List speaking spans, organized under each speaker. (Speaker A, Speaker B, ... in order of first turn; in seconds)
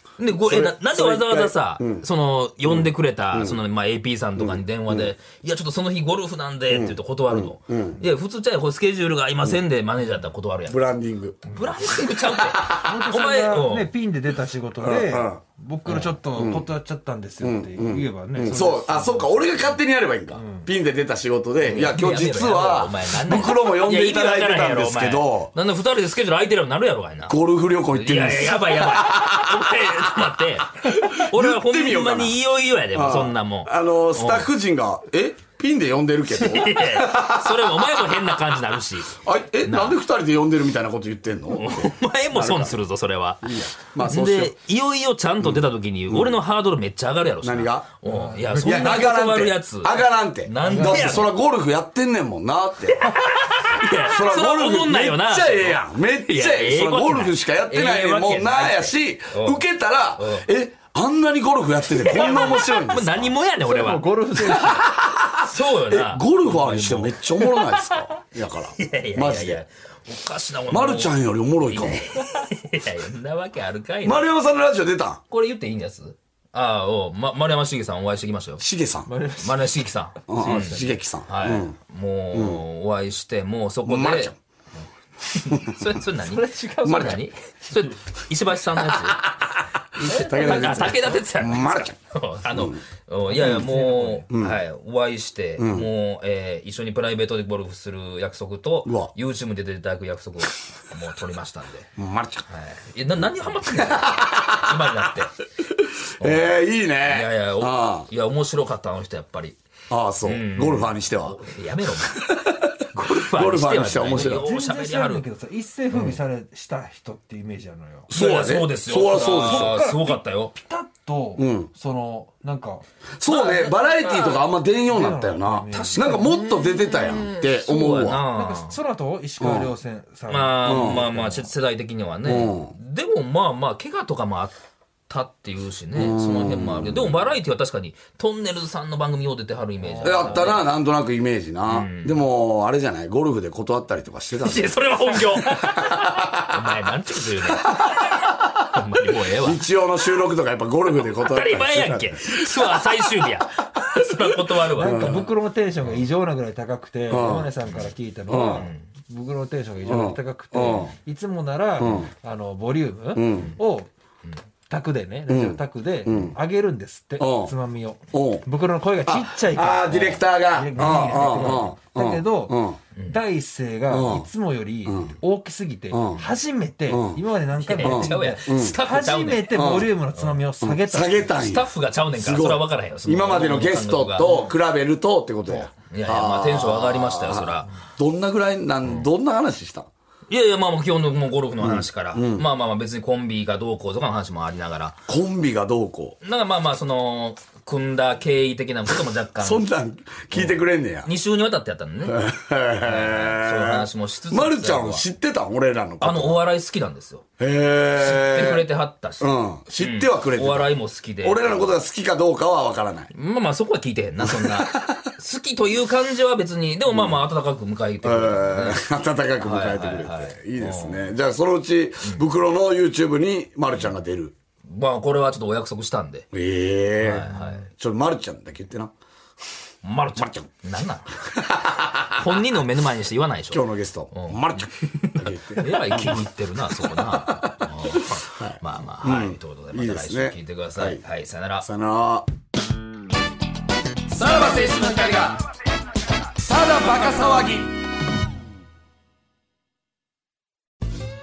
Speaker A: 0.2-10.8, 11.5-13.9, 15.9-16.2, 21.6-27.4, 27.9-34.5, 36.3-40.0, 41.5-51.3, 52.9-59.6, 60.2-60.5, 61.9-64.7, 65.4-67.8, 68.8-74.3, 75.3-78.6, 79.4-84.3, 85.2-89.2, 90.0-101.9, 102.5-105.4, 106.2-109.6, 110.2-115.2, 115.9-116.2, 118.1-120.6, 123.3-124.4, 125.7-128.8, 130.3-134.6, 135.1-140.7, 141.7-142.2, 144.4-149.6, 150.9-155.3, 157.7-158.9, 177.6-180.4, 181.4-184.5, 185.9-187.8, 190.3-195.0, 196.2-199.7, 200.3-202.2, 202.8-205.1, 206.0-207.2, 208.0-211.8, 213.1-218.8, 219.4-221.2, 224.7-226.3, 227.0-227.7, 229.8-231.3, 232.1-241.7
Speaker B: 0.3-2.1, 2.6-3.6, 4.4-5.1, 6.7-8.0, 10.7-13.1, 14.8-15.4, 16.3-16.7, 17.4-25.5, 27.3-29.9, 31.3-32.4, 32.9-38.2, 39.2-42.8, 43.4-44.5, 45.4-46.4, 47.4-47.9, 48.6-53.1, 54.0-63.3, 64.4-69.6, 70.7-72.1, 74.0-75.2, 78.6-79.1, 80.3-81.8, 82.3-82.6, 83.8-84.4, 86.8-87.2, 88.8-92.0, 92.5-93.7, 94.3-94.6, 95.6-95.9, 98.9-99.1, 102.0-102.5, 103.9-104.5, 105.8-108.1, 109.9-111.4, 112.2-112.6, 113.2-114.5, 118.1-119.8, 121.4-121.7, 123.2-128.2, 129.4-129.7, 130.6-131.1, 132.2-132.7, 135.9-137.4, 140.0-145.6, 149.4-152.8, 154.8-155.3, 157.1-157.5, 158.3-158.7, 159.8-160.9, 161.8-162.1, 163.1-163.6, 165.3-166.4, 167.2-167.5, 168.1-168.5, 169.1-172.8, 173.9-174.3, 174.8-175.2, 175.9-176.3, 176.9-177.2, 177.8-178.8, 179.5-179.9, 180.6-189.9, 191.6-192.5, 195.1-196.2, 199.4-201.1, 202.1-206.4, 207.4-208.7, 209.2-213.1, 214.2-215.1, 216.9-217.3, 218.0-224.3, 226.3-228.9, 230.2-230.5, 231.3-232.1, 233.5-241.0, 241.6-242.3, 244.1-245.4, 246.4-247.7
Speaker C: 12.8-19.8, 20.3-20.7, 48.0-49.0, 50.6-51.2, 53.0-54.2, 62.2-62.7, 63.6-64.9, 79.1-79.7, 80.3-81.0, 86.2-87.9, 90.0-91.2, 93.3-94.3, 114.1-118.1, 119.2-122.8, 124.9-126.4, 128.3-131.5, 139.8-140.5, 154.7-163.9, 164.7-181.4